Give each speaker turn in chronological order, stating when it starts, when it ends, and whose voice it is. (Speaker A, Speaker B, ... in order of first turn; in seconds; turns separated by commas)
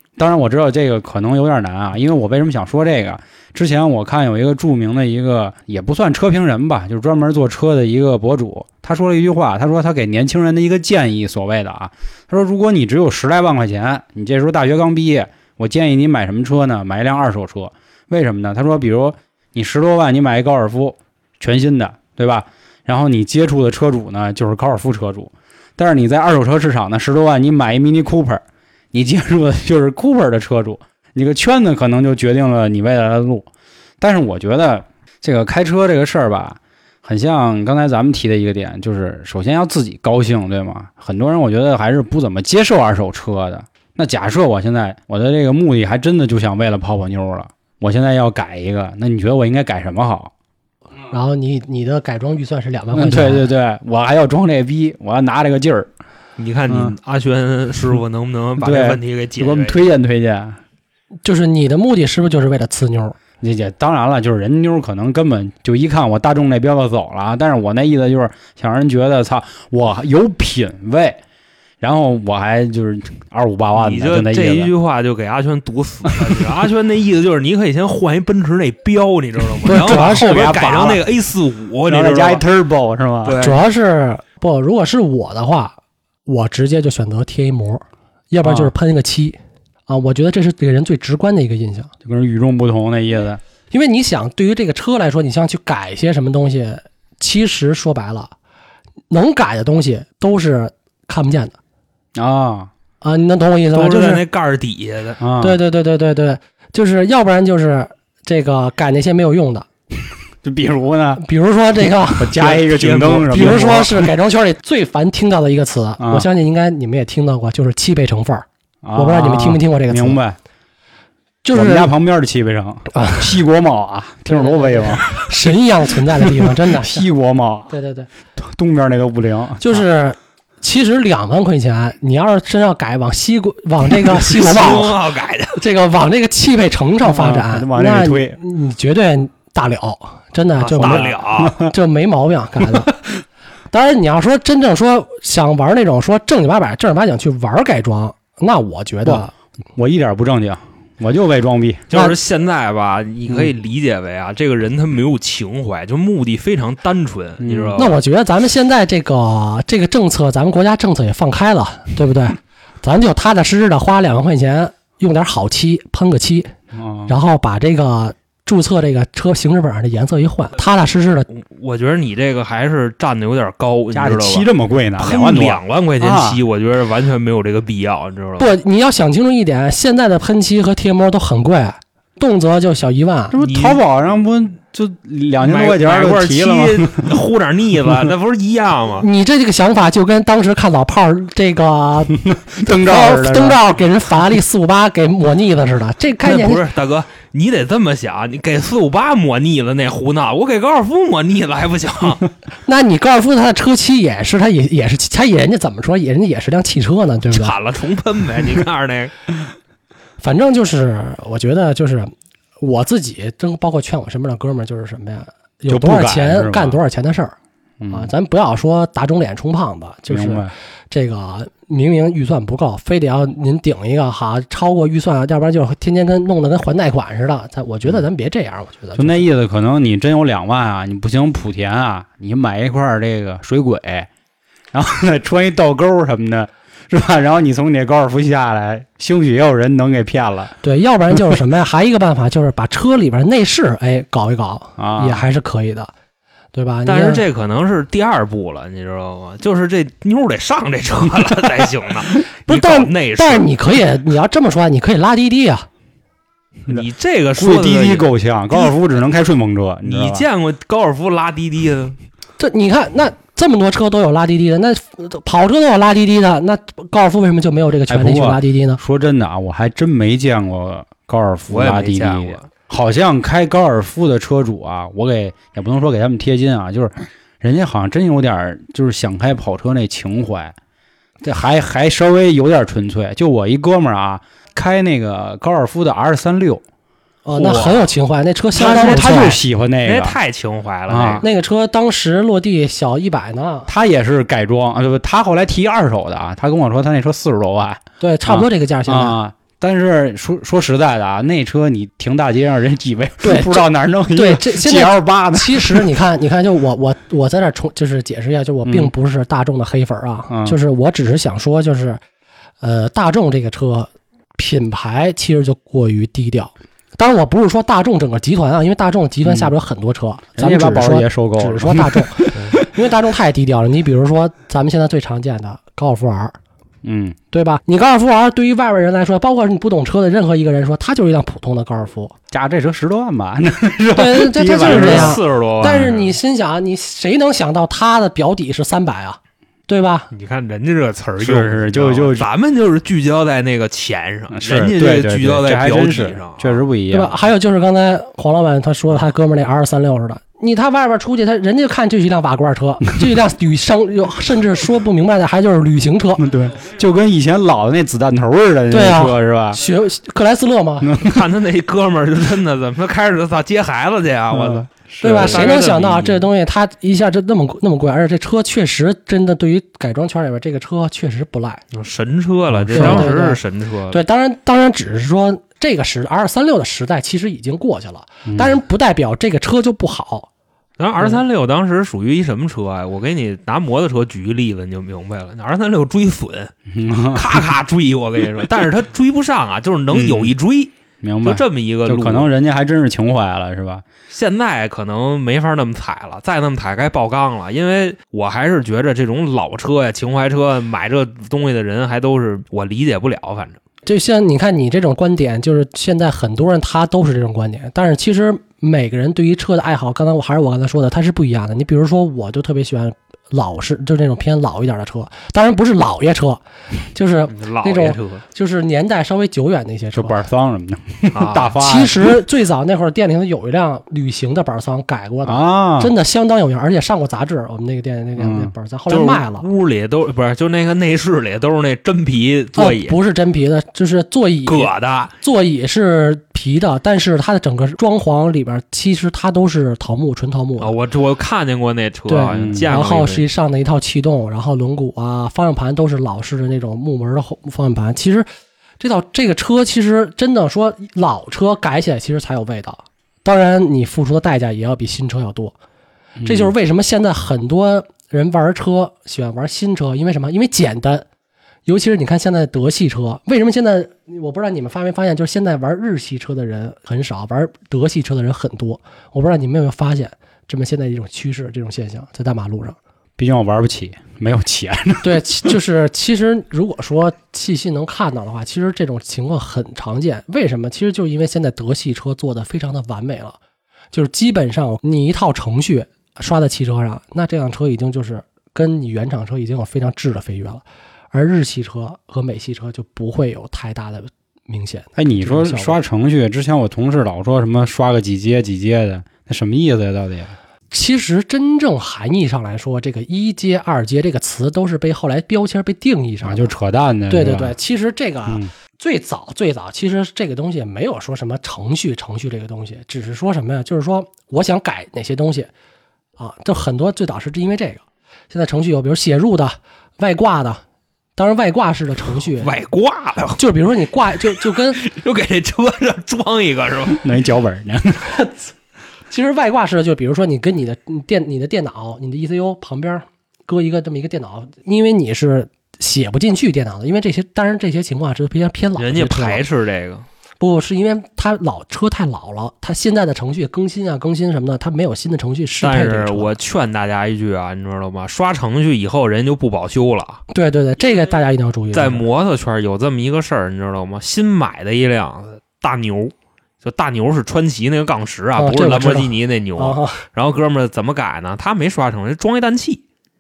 Speaker A: 0.2-33.5, Speaker A: 34.0-50.3, Speaker B: 51.1-53.5, Speaker A: 53.0-55.9, Speaker C: 56.4-59.8, Speaker A: 56.7-57.0, Speaker A: 58.6-60.6, Speaker B: 61.2-63.2, Speaker A: 63.4-71.2, Speaker A: 71.8-74.7, Speaker C: 73.8-82.4, Speaker B: 79.7-80.7, Speaker A: 79.7-81.0, Speaker A: 81.9-83.4, Speaker C: 83.2-83.6, Speaker B: 83.4-91.9, Speaker A: 88.4-88.7, Speaker A: 92.0-93.4, Speaker B: 93.7-98.3, Speaker B: 99.1-101.6, Speaker A: 102.2-102.7, Speaker B: 103.0-104.2, Speaker C: 103.7-105.2, Speaker A: 105.2-105.6, Speaker B: 105.4-109.7, Speaker A: 110.4-111.2, Speaker B: 111.2-112.7, Speaker A: 112.2-114.1, Speaker C: 112.5-113.7, Speaker B: 113.3-120.2, Speaker A: 116.0-116.3, Speaker A: 118.8-120.4, Speaker B: 121.4-121.9, Speaker A: 121.5-125.3, Speaker B: 122.9-123.4, Speaker B: 124.3-127.0, Speaker A: 126.2-127.7, Speaker B: 127.7-128.1, Speaker A: 128.4-129.8, Speaker B: 129.6-135.0, Speaker C: 134.2-135.6, Speaker B: 135.5-142.9, Speaker A: 137.0-138.4, Speaker C: 140.6-141.6, Speaker A: 140.8-141.7, Speaker B: 143.7-149.3, Speaker A: 149.1-152.1, Speaker C: 151.9-158.0, Speaker A: 157.4-157.8, Speaker B: 157.8-166.5, Speaker A: 166.7-167.1, Speaker B: 167.1-171.3, Speaker C: 171.3-178.5, Speaker A: 173.9-176.4, Speaker B: 178.4-183.4, Speaker A: 183.3-187.1, Speaker C: 183.4-183.8, Speaker C: 185.4-189.1, Speaker A: 187.9-188.1, Speaker B: 189.0-196.6, Speaker A: 192.1-193.6, Speaker C: 196.2-202.3, Speaker B: 202.7-207.6, Speaker C: 207.3-209.1, Speaker B: 210.2-217.4, Speaker A: 215.7-216.8, Speaker A: 217.8-218.1, Speaker B: 217.9-229.3, Speaker A: 220.1-220.5, Speaker A: 228.9-234.1, Speaker A: 234.7-240.6, Speaker B: 240.6-245.9, Speaker A: 244.8-245.2, Speaker B: 246.5-247.2, Speaker C: 246.9-253.5, Speaker B: 252.5-255.7, Speaker C: 256.7-258.7, Speaker A: 257.4-260.3, Speaker C: 259.8-262.0, Speaker B: 262.4-268.8, Speaker A: 267.9-280.6, Speaker C: 271.5-272.5, Speaker A: 281.2-286.6, Speaker B: 287.2-289.4, Speaker C: 287.3-287.9, Speaker C: 288.6-291.2, Speaker A: 288.6-290.2, Speaker A: 290.9-291.2, Speaker B: 291.2-293.7, Speaker A: 293.7-305.9, Speaker B: 298.0-299.2, Speaker B: 303.2-312.0, Speaker A: 308.7-308.9, Speaker A: 310.3-310.6, Speaker B: 312.6-326.4, Speaker A: 319.2-319.5, Speaker A: 320.4-322.7, Speaker A: 326.8-327.2, Speaker B: 327.3-332.1, Speaker A: 332.3-336.1, Speaker B: 333.9-340.1, Speaker C: 334.6-336.0, Speaker C: 340.1-346.6, Speaker A: 341.2-342.3, Speaker A: 344.3-347.2, Speaker B: 346.9-356.2, Speaker A: 356.2-359.6, Speaker B: 358.7-361.0, Speaker A: 360.8-361.3, Speaker C: 361.0-366.3, Speaker A: 364.3-365.4, Speaker B: 365.0-371.6, Speaker C: 371.7-374.0, Speaker A: 372.5-373.1, Speaker B: 372.7-380.3, Speaker A: 378.3-378.6, Speaker C: 380.8-390.7, Speaker A: 386.7-387.4, Speaker A: 389.9-390.3, Speaker A: 391.0-393.8, Speaker C: 391.2-392.3, Speaker C: 394.1-403.6, Speaker B: 403.9-416.4, Speaker B: 416.9-420.3, Speaker C: 417.3-418.2, Speaker A: 419.9-422.1, Speaker C: 421.1-421.6, Speaker B: 421.6-429.5, Speaker A: 425.3-425.9, Speaker A: 428.2-428.5, Speaker C: 428.9-433.0, Speaker B: 432.6-440.8, Speaker C: 434.5-435.1, Speaker C: 440.6-443.2, Speaker B: 442.1-448.3, Speaker A: 442.3-442.7, Speaker B: 448.8-455.6, Speaker A: 456.2-456.5, Speaker B: 456.2-461.1, Speaker B: 461.7-472.8, Speaker A: 473.2-475.5, Speaker B: 475.0-483.4, Speaker B: 483.9-495.8, Speaker A: 495.0-500.3, Speaker B: 500.7-506.5, Speaker A: 506.2-507.6, Speaker B: 507.1-515.5, Speaker B: 516.2-520.6, Speaker B: 521.2-522.5, Speaker C: 522.4-523.5, Speaker B: 523.4-524.8, Speaker C: 524.2-527.0, Speaker A: 527.0-528.1, Speaker B: 528.0-528.4, Speaker B: 529.1-539.5, Speaker C: 538.8-540.0, Speaker B: 540.4-546.3, Speaker C: 545.6-550.2, Speaker B: 550.3-552.0, Speaker C: 551.7-562.8, Speaker B: 558.4-560.1